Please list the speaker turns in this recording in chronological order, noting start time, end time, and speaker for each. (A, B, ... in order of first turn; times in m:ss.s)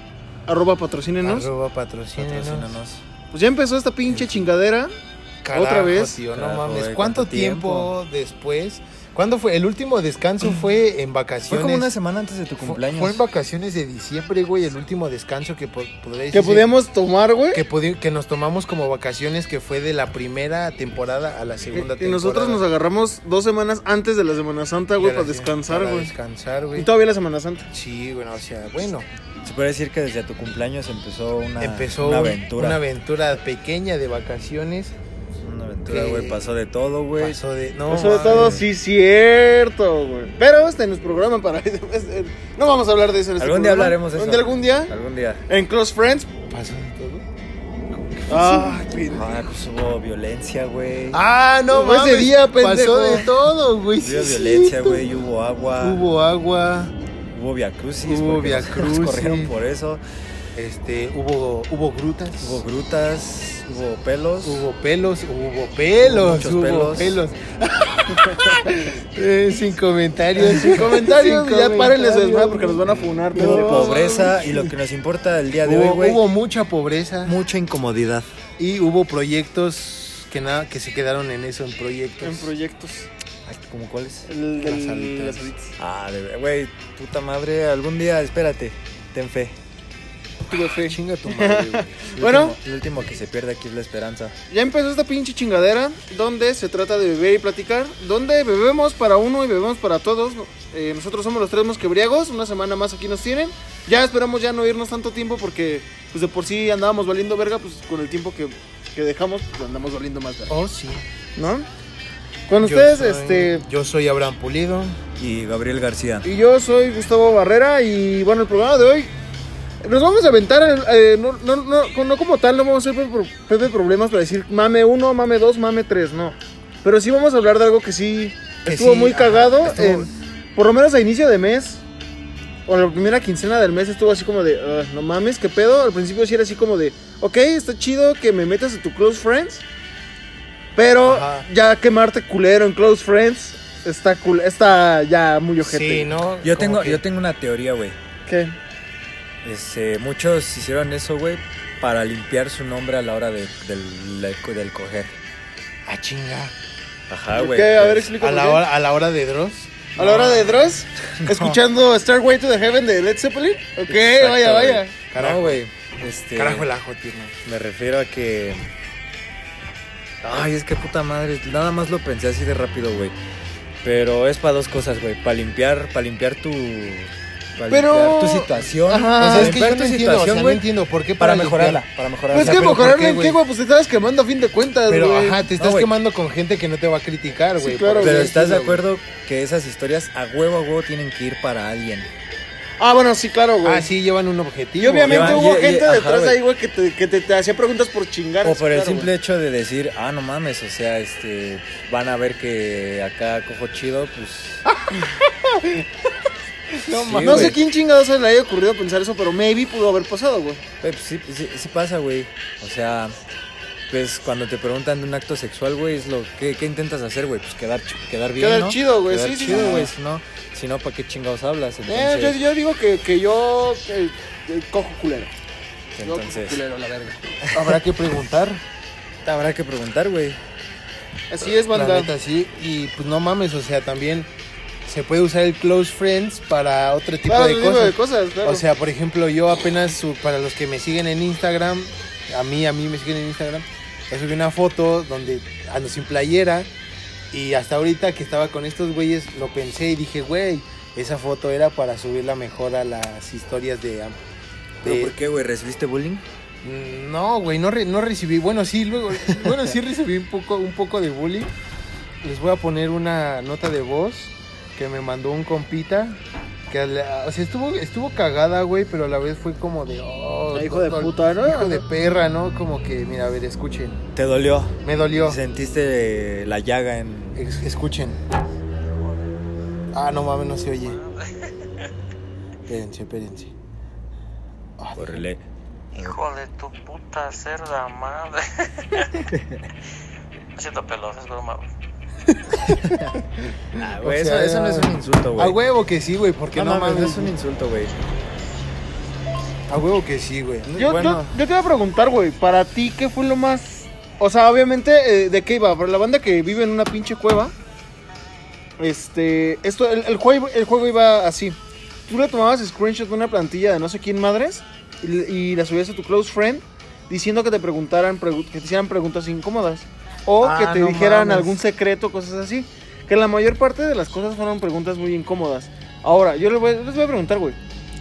0:00.5-0:01.5 A
0:01.2-0:02.7 B
0:02.2-0:03.0 C
0:03.3-0:04.9 A
0:04.1-0:04.4 C
0:05.4-0:11.9 B
0:05.5-0:06.2 A
0:06.3-0:07.9 C
0:11.5-0:13.2 C
0:12.6-0:16.7 B
0:16.3-0:17.6 A
0:17.5-0:22.6 B
0:21.7-0:26.1 A
0:25.0-0:26.9 B
0:26.8-0:27.7 A
0:27.7-0:29.1 B
0:29.4-0:32.8 C
0:31.6-0:34.9 B
0:35.4-0:37.4 C
0:35.8-0:36.4 B
0:37.2-0:38.6 B
0:37.9-0:44.9 A
0:37.9-0:38.6 C
0:43.4-0:45.4 C
0:45.5-0:46.3 A
0:46.5-0:47.2 B
0:47.9-0:48.9 B
0:48.3-0:49.3 A
0:49.1-0:51.2 C
0:51.1-0:55.0 B
0:51.7-0:53.3 A
0:54.0-0:56.0 C
0:55.8-0:56.9 B
0:57.3-1:00.0 C
0:58.0-0:59.5 B
1:00.5-1:02.6 B
1:02.4-1:04.6 C
1:04.4-1:14.7 B
1:06.0-1:07.2 C
1:10.4-1:14.5 A
1:13.3-1:16.2 C
1:15.6-1:17.4 B
1:17.2-1:18.3 C
1:18.6-1:22.5 B
1:22.2-1:23.1 A
1:23.4-1:24.3 C
1:24.3-1:25.7 A
1:24.6-1:25.5 B
1:25.8-1:29.6 C
1:30.5-1:32.6 A
1:30.8-1:32.0 B
1:32.2-1:34.3 C
1:34.5-1:50.5 A
1:50.5-1:51.0 B
1:51.4-1:51.7 A
1:52.5-1:53.6 A
1:52.6-1:55.0 B
1:55.2-1:56.3 C
1:56.2-1:59.1 A
1:59.8-2:11.8 A
2:08.6-2:10.1 B
2:12.6-2:19.6 A
2:20.7-2:26.1 A
2:21.0-2:21.5 B
2:25.6-2:27.0 B
2:26.4-2:28.0 C
2:28.3-2:28.5 A
2:29.4-2:35.2 C
2:35.9-2:36.5 B
2:37.1-2:38.1 C
2:37.3-2:38.6 A
2:38.2-2:40.5 B
2:40.0-2:44.9 A
2:40.0-2:40.4 C
2:41.2-2:41.6 C
2:43.9-2:46.7 C
2:44.2-2:45.6 B
2:46.3-2:47.4 B
2:47.4-2:48.6 C
2:50.2-2:53.1 C
2:53.8-3:00.6 C
2:57.7-2:59.6 A
2:59.2-3:03.4 B
3:01.2-3:02.7 C
3:02.3-3:05.4 A
3:04.9-3:08.8 B
3:05.5-3:05.9 C
3:07.6-3:08.3 A
3:08.0-3:12.1 C
3:12.8-3:13.9 A
3:13.6-3:15.4 B
3:14.8-3:19.1 A
3:15.1-3:16.4 C
3:18.4-3:24.6 C
3:26.8-3:27.6 B
3:26.9-3:27.6 C
3:27.2-3:30.6 A
3:30.8-3:33.2 C
3:33.9-3:42.4 C
3:38.4-3:39.9 A
3:41.9-3:45.3 A
3:46.0-3:46.6 C
3:46.0-3:47.2 A
3:47.4-3:47.8 C
3:47.5-3:48.6 B
3:49.2-3:50.4 C
3:51.3-3:52.1 A
3:51.7-3:54.3 B
3:54.8-4:06.7 B
3:57.3-3:58.6 A
4:07.3-4:14.2 B
4:14.8-4:15.1 B
4:14.8-4:16.2 C
4:16.6-4:21.5 B
4:22.2-4:34.0 B
4:30.5-4:31.8 A
4:34.1-4:37.4 C
4:34.8-4:35.4 B
4:37.3-4:38.2 B
4:39.9-4:41.0 B
4:40.9-4:41.6 D
4:42.7-4:43.5 B
4:44.8-4:45.2 B
4:44.9-4:45.4 C
4:45.9-4:49.3 D
4:49.3-4:49.6 C
4:50.5-4:51.7 D
4:52.6-4:57.3 B
4:52.7-4:53.1 C
4:53.7-4:55.6 C
4:56.5-4:58.0 C
4:59.7-5:01.3 B
5:00.8-5:07.5 A
5:08.8-5:11.6 A
5:12.1-5:27.6 A
5:20.4-5:21.5 B